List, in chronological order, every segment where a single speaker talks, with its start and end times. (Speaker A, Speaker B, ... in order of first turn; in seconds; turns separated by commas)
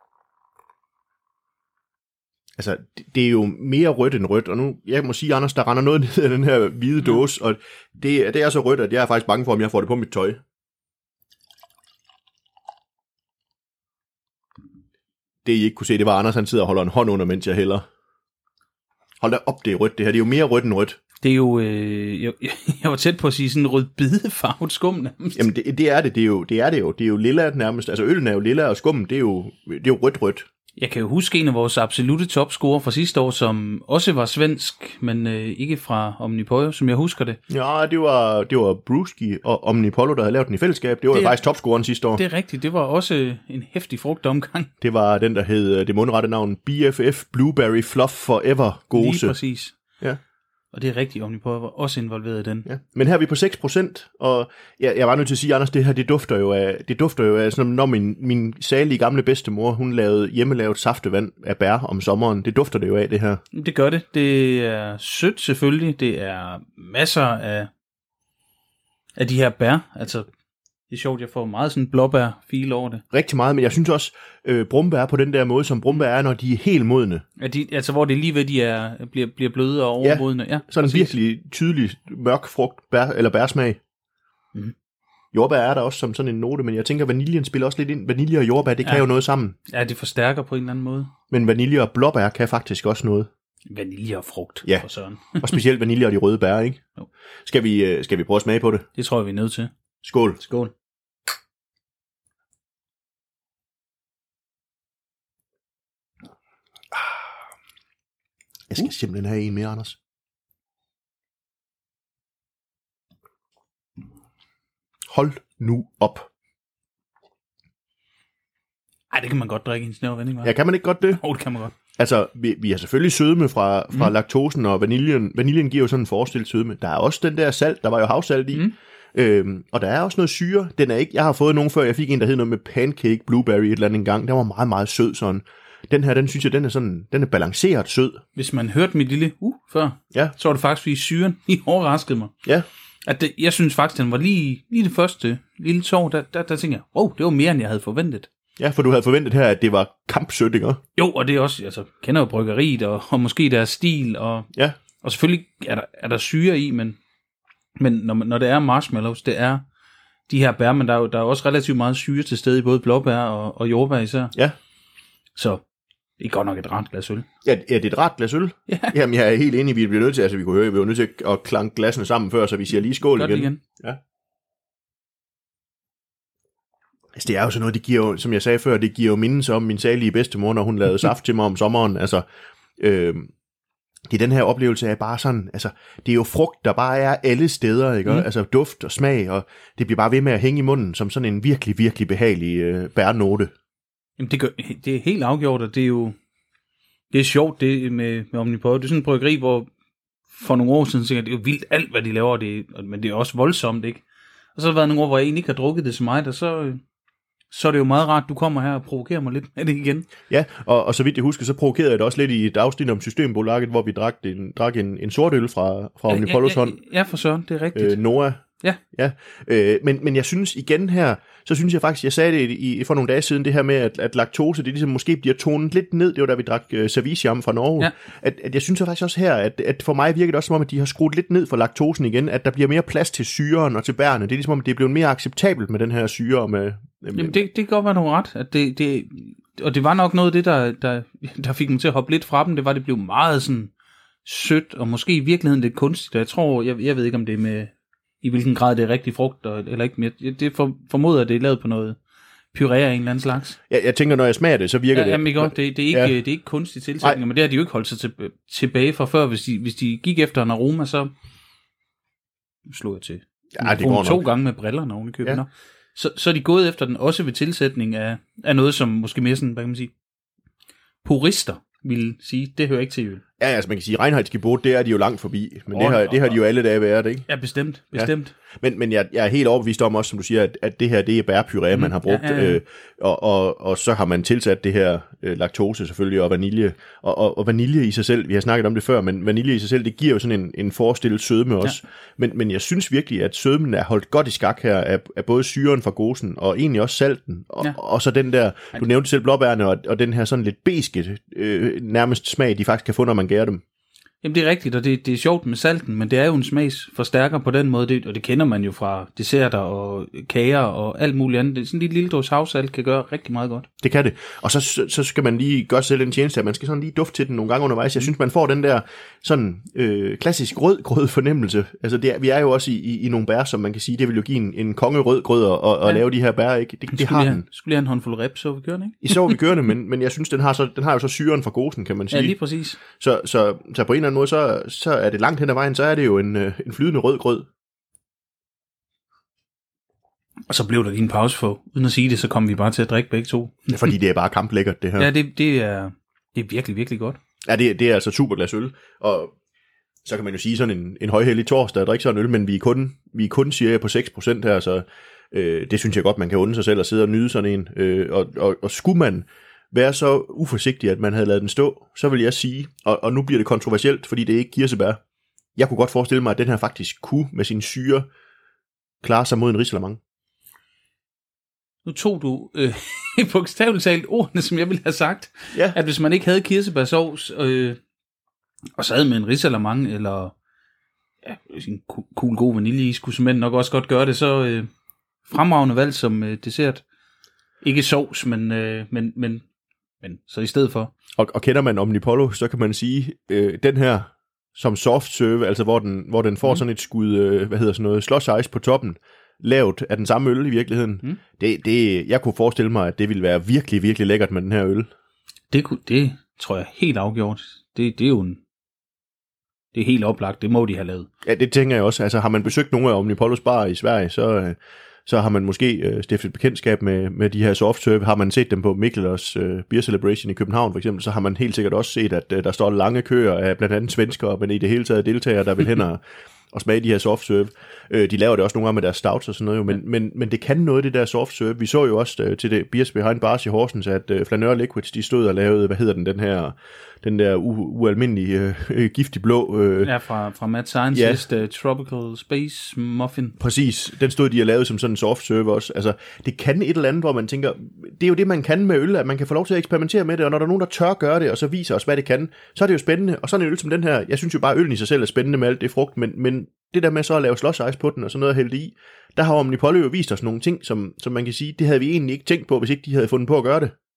Speaker A: 2.6-10.4, Speaker A: 15.4-17.9, Speaker A: 19.2-21.0, Speaker B: 21.2-25.5, Speaker A: 25.4-30.5, Speaker B: 30.8-37.4, Speaker A: 37.5-42.2, Speaker B: 41.1-41.4, Speaker B: 42.2-44.7, Speaker A: 44.8-49.4, Speaker B: 48.9-49.8, Speaker B: 50.7-52.7, Speaker A: 52.7-63.4, Speaker B: 63.5-67.7, Speaker B: 69.2-70.3, Speaker B: 70.9-73.0, Speaker A: 73.1-77.2, Speaker B: 77.4-81.2, Speaker A: 80.0-83.8, Speaker A: 85.3-89.6, Speaker B: 89.7-91.1, Speaker A: 91.3-93.3, Speaker B: 93.7-95.5, Speaker A: 95.4-96.8, Speaker A: 97.5-98.9, Speaker B: 99.0-99.7, Speaker A: 100.0-100.4, Speaker B: 100.4-100.7, Speaker A: 108.7-110.0, Speaker A: 115.1-116.3, Speaker B: 119.1-120.5, Speaker A: 120.4-121.2, Speaker B: 121.1-121.8, Speaker A: 121.9-138.2, Speaker B: 138.3-142.3, Speaker B: 143.1-148.3, Speaker A: 148.6-150.8, Speaker B: 151.0-154.5, Speaker B: 155.0-157.0, Speaker B: 157.8-159.7, Speaker B: 160.3-164.3, Speaker B: 165.4-165.6, Speaker B: 166.2-167.2, Speaker A: 167.4-174.0, Speaker B: 168.7-169.0, Speaker B: 173.1-173.6, Speaker A: 177.2-182.2, Speaker A: 182.8-183.3, Speaker A: 184.1-193.5, Speaker B: 194.2-196.2, Speaker B: 197.1-199.7, Speaker B: 200.3-204.0, Speaker B: 204.6-206.8, Speaker B: 207.5-210.1, Speaker A: 210.3-216.8, Speaker B: 216.1-218.0, Speaker A: 217.8-218.4, Speaker A: 218.9-237.4, Speaker B: 237.2-243.7, Speaker B: 244.2-252.0, Speaker B: 252.5-253.6, Speaker A: 253.7-256.1, Speaker B: 254.9-261.1, Speaker B: 262.7-269.9, Speaker A: 263.6-264.2, Speaker B: 271.0-273.2, Speaker A: 273.4-277.3, Speaker B: 275.7-276.4, Speaker B: 277.3-278.3, Speaker A: 277.9-303.6, Speaker B: 281.7-282.6, Speaker B: 304.2-313.7, Speaker A: 313.8-327.4, Speaker B: 326.9-329.4, Speaker A: 329.0-332.4, Speaker B: 332.1-332.8, Speaker A: 332.9-337.5, Speaker B: 340.5-343.9, Speaker A: 343.7-345.1, Speaker B: 345.0-347.2, Speaker A: 347.4-349.3, Speaker A: 350.0-365.0, Speaker A: 365.6-368.1, Speaker A: 369.0-370.0, Speaker B: 371.9-377.8, Speaker B: 378.8-380.3, Speaker B: 381.2-384.7, Speaker B: 385.3-386.8, Speaker B: 387.6-389.5, Speaker B: 390.0-390.9, Speaker A: 391.2-404.9, Speaker B: 405.5-408.4, Speaker B: 409.7-411.1, Speaker A: 411.2-426.0, Speaker A: 426.5-439.9, Speaker B: 439.8-443.4, Speaker A: 440.9-441.2, Speaker A: 443.4-463.7